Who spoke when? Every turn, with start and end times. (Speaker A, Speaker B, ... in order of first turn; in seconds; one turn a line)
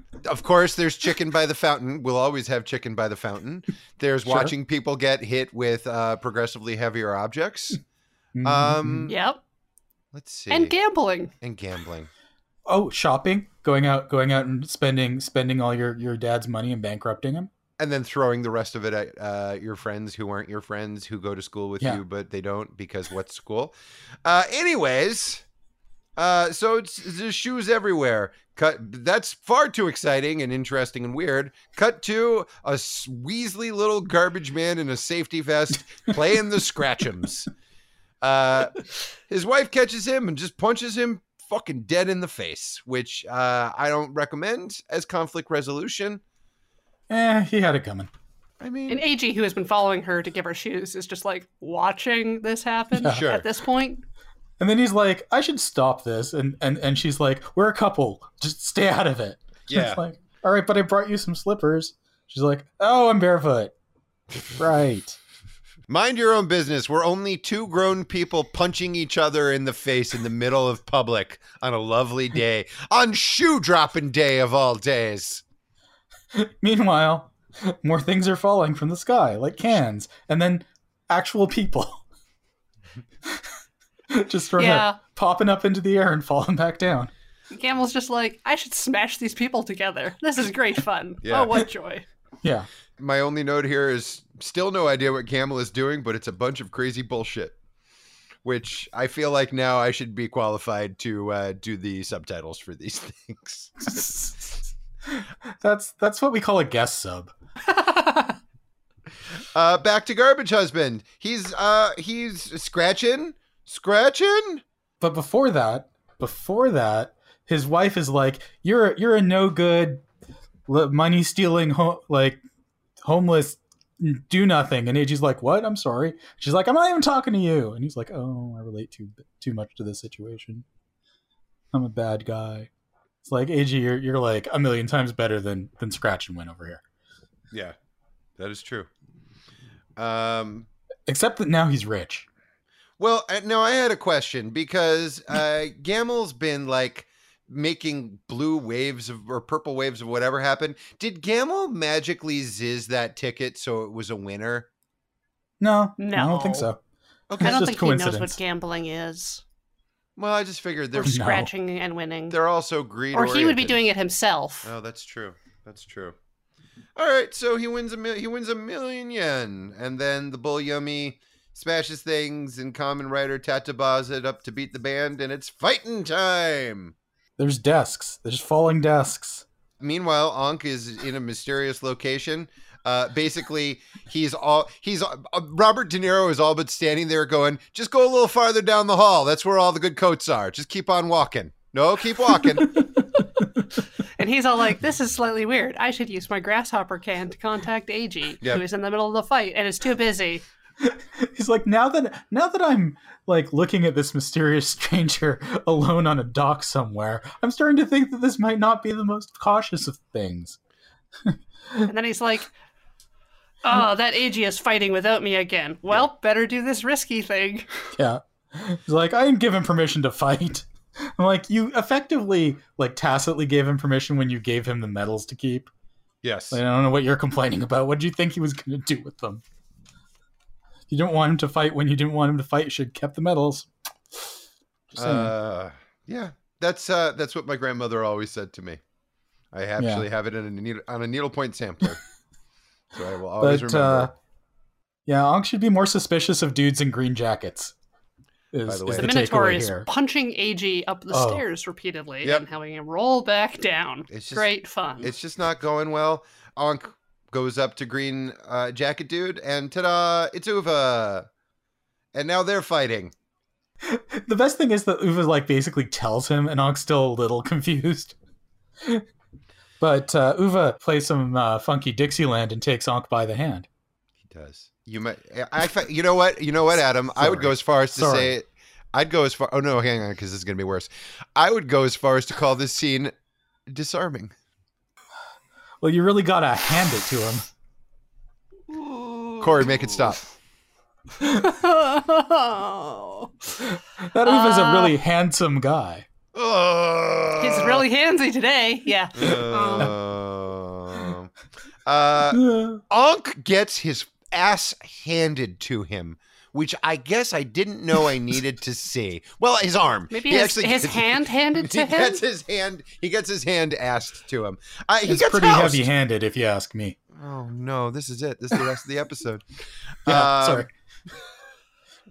Speaker A: 0.2-7.8
Speaker B: 4.2-4.5
Speaker B: 8.3-9.1
Speaker A: 8.4-9.2
Speaker C: 9.1-9.4
Speaker A: 10.1-10.7
Speaker C: 10.5-11.3
Speaker A: 11.4-12.1
Speaker B: 12.7-17.5
Speaker A: 17.8-23.7
Speaker A: 24.2-25.4
Speaker A: 26.2-37.5
Speaker A: 38.2-38.8
Speaker A: 39.3-46.2
Speaker B: 47.1-48.1
Speaker A: 48.6-49.0
Speaker C: 48.9-54.0
Speaker B: 52.9-53.2
Speaker A: 53.1-53.5
Speaker B: 54.6-63.7
Speaker A: 59.7-60.0
Speaker B: 64.5-65.2
Speaker A: 65.9-75.4
Speaker B: 76.3-82.0
Speaker B: 84.1-87.1
Speaker C: 84.6-85.0
Speaker C: 87.5-92.0
Speaker A: 91.2-91.5
Speaker B: 92.4-92.7
Speaker A: 93.0-97.6
Speaker A: 98.4-104.2
Speaker B: 104.0-104.3
Speaker B: 105.1-107.3
Speaker C: 107.7-108.4
Speaker A: 109.5-114.6
Speaker B: 115.0-120.0
Speaker B: 120.7-122.4
Speaker B: 123.0-130.6
Speaker B: 131.7-132.7
Speaker B: 133.2-136.8
Speaker A: 137.5-137.8
Speaker A: 138.4-138.9
Speaker A: 140.0-140.7
Speaker B: 141.1-142.3
Speaker A: 143.0-154.7
Speaker B: 155.6-156.8
Speaker C: 156.0-156.7
Speaker A: 157.3-157.6
Speaker B: 157.4-158.4
Speaker C: 157.4-159.4
Speaker A: 160.2-161.3
Speaker C: 160.9-162.4
Speaker B: 161.0-161.5
Speaker A: 162.3-163.8
Speaker C: 163.1-164.7
Speaker A: 164.6-166.2
Speaker A: 166.9-176.9
Speaker B: 177.4-179.4
Speaker A: 179.8-192.8
Speaker B: 193.2-193.5
Speaker C: 194.2-200.4
Speaker B: 200.8-210.6
Speaker B: 211.2-211.9
Speaker C: 211.9-212.5
Speaker C: 213.6-217.7
Speaker B: 217.9-225.7
Speaker A: 226.2-226.6
Speaker B: 226.5-229.4
Speaker B: 230.9-234.3
Speaker B: 234.9-235.3
Speaker A: 234.9-238.8
Speaker A: 239.5-242.0
Speaker B: 239.8-240.1
Speaker A: 242.9-244.1
Speaker B: 243.4-244.1
Speaker B: 245.1-247.7
Speaker B: 248.5-249.9
Speaker A: 248.7-249.2
Speaker C: 248.9-255.1
Speaker B: 251.1-251.4
Speaker A: 254.1-254.5
Speaker A: 255.0-261.2
Speaker A: 262.1-263.1
Speaker B: 263.8-268.1
Speaker B: 269.8-273.7
Speaker A: 274.2-283.1
Speaker B: 277.2-278.3
Speaker A: 283.7-284.3
Speaker B: 285.8-287.4
Speaker C: 288.8-289.5
Speaker A: 289.4-290.2
Speaker C: 291.2-293.3
Speaker B: 293.6-296.1
Speaker C: 294.2-295.0
Speaker A: 296.3-297.8
Speaker C: 297.4-299.9
Speaker A: 299.1-301.3
Speaker A: 301.9-315.9
Speaker B: 302.3-302.8
Speaker C: 310.1-312.2
Speaker B: 315.0-317.0
Speaker A: 317.1-319.4
Speaker A: 320.0-320.7
Speaker B: 320.1-320.7